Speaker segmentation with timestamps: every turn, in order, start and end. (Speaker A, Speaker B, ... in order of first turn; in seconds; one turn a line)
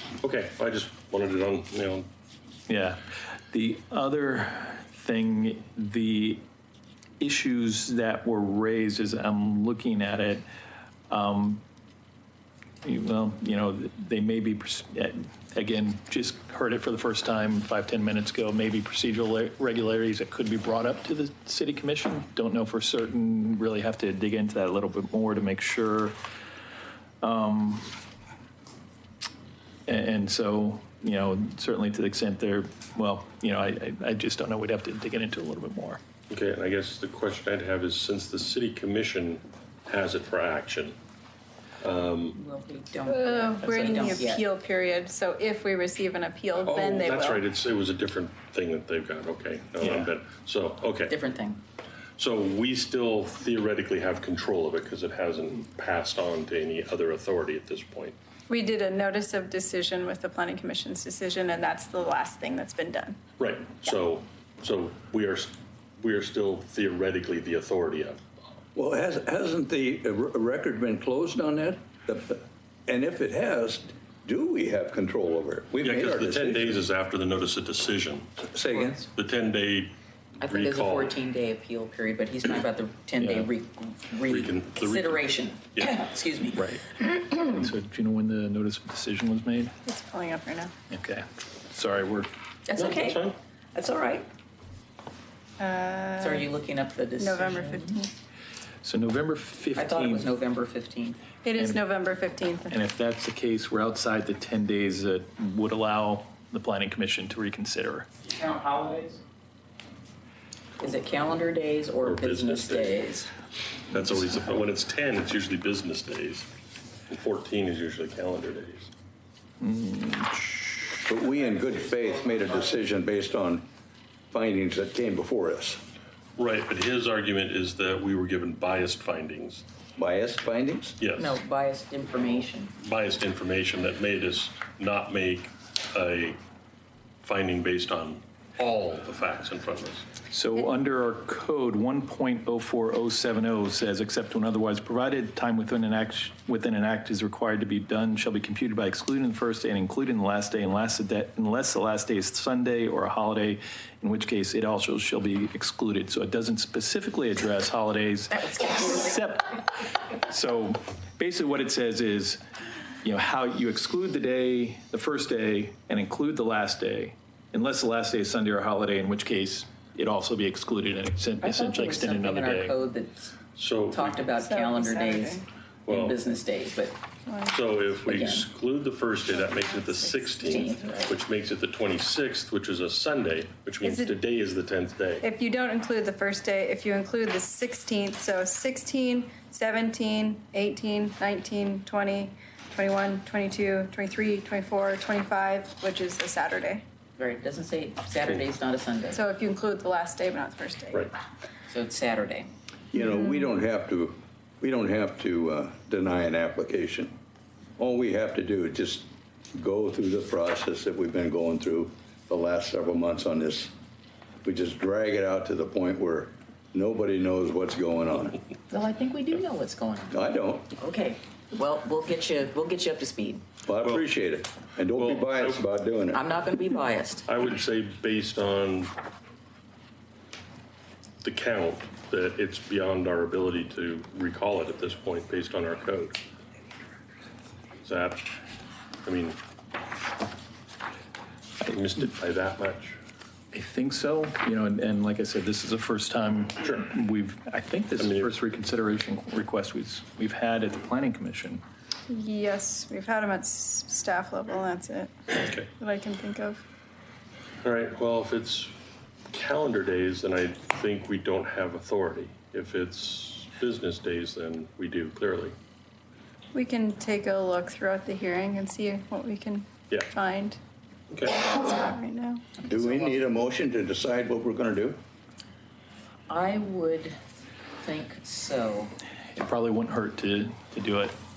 Speaker A: 0.2-2.1
Speaker B: 2.7-3.0
Speaker B: 3.5-6.4
Speaker B: 7.2-10.4
Speaker B: 11.1-11.6
Speaker B: 12.8-26.1
Speaker B: 27.2-27.9
Speaker B: 29.9-36.0
Speaker A: 36.3-41.0
Speaker A: 41.8-42.4
Speaker C: 42.3-44.4
Speaker D: 43.1-47.4
Speaker A: 46.6-51.1
Speaker C: 51.1-51.6
Speaker A: 52.2-58.1
Speaker D: 58.5-63.2
Speaker A: 63.4-68.2
Speaker E: 68.8-76.8
Speaker A: 75.8-78.5
Speaker E: 78.5-79.0
Speaker C: 78.7-79.0
Speaker A: 79.1-81.2
Speaker C: 80.4-86.7
Speaker B: 83.2-83.5
Speaker A: 84.3-86.0
Speaker B: 86.6-89.7
Speaker D: 89.8-90.7
Speaker B: 90.9-92.3
Speaker C: 92.7-94.3
Speaker A: 92.8-93.3
Speaker D: 95.6-96.5
Speaker C: 96.2-98.0
Speaker D: 97.2-98.1
Speaker B: 98.8-100.3
Speaker C: 99.8-101.2
Speaker D: 101.4-102.8
Speaker B: 101.5-101.8
Speaker B: 102.7-108.1
Speaker C: 110.8-113.3
Speaker A: 112.0-113.1
Speaker A: 113.9-116.5
Speaker A: 117.1-118.9
Speaker B: 119.6-121.0
Speaker E: 121.0-123.6
Speaker E: 124.3-125.8
Speaker A: 126.4-129.6
Speaker E: 130.0-131.0
Speaker A: 131.0-131.4
Speaker C: 131.2-132.7
Speaker A: 132.8-136.4
Speaker A: 137.2-140.1
Speaker B: 140.3-162.4
Speaker C: 158.3-159.2
Speaker B: 163.0-172.8
Speaker C: 171.4-173.3
Speaker A: 173.6-174.2
Speaker C: 173.9-177.0
Speaker D: 174.4-175.4
Speaker A: 175.9-176.2
Speaker D: 177.3-177.6
Speaker A: 177.5-185.2
Speaker C: 178.1-178.5
Speaker D: 179.3-181.1
Speaker C: 180.4-181.1
Speaker D: 183.8-184.2
Speaker D: 185.2-196.8
Speaker C: 197.2-199.2
Speaker D: 199.1-201.1
Speaker C: 201.7-202.5
Speaker E: 202.9-207.1
Speaker E: 207.8-213.7
Speaker E: 214.4-218.4
Speaker C: 218.7-220.2
Speaker E: 220.1-220.7
Speaker C: 220.8-223.4
Speaker E: 223.7-226.2
Speaker A: 224.9-225.6
Speaker C: 226.1-227.2
Speaker A: 227.3-228.9
Speaker A: 231.2-236.2
Speaker A: 237.8-238.2
Speaker A: 239.0-239.4
Speaker A: 241.7-243.0
Speaker B: 243.5-251.6
Speaker A: 248.0-248.3
Speaker D: 252.1-255.2
Speaker A: 255.4-255.7
Speaker D: 255.8-256.6
Speaker A: 257.6-258.7
Speaker A: 259.3-265.6
Speaker D: 266.5-270.6
Speaker A: 271.1-271.5
Speaker D: 271.4-272.4
Speaker C: 272.6-273.2
Speaker E: 272.7-275.0
Speaker C: 276.3-277.2
Speaker C: 277.8-278.9
Speaker B: 279.4-281.1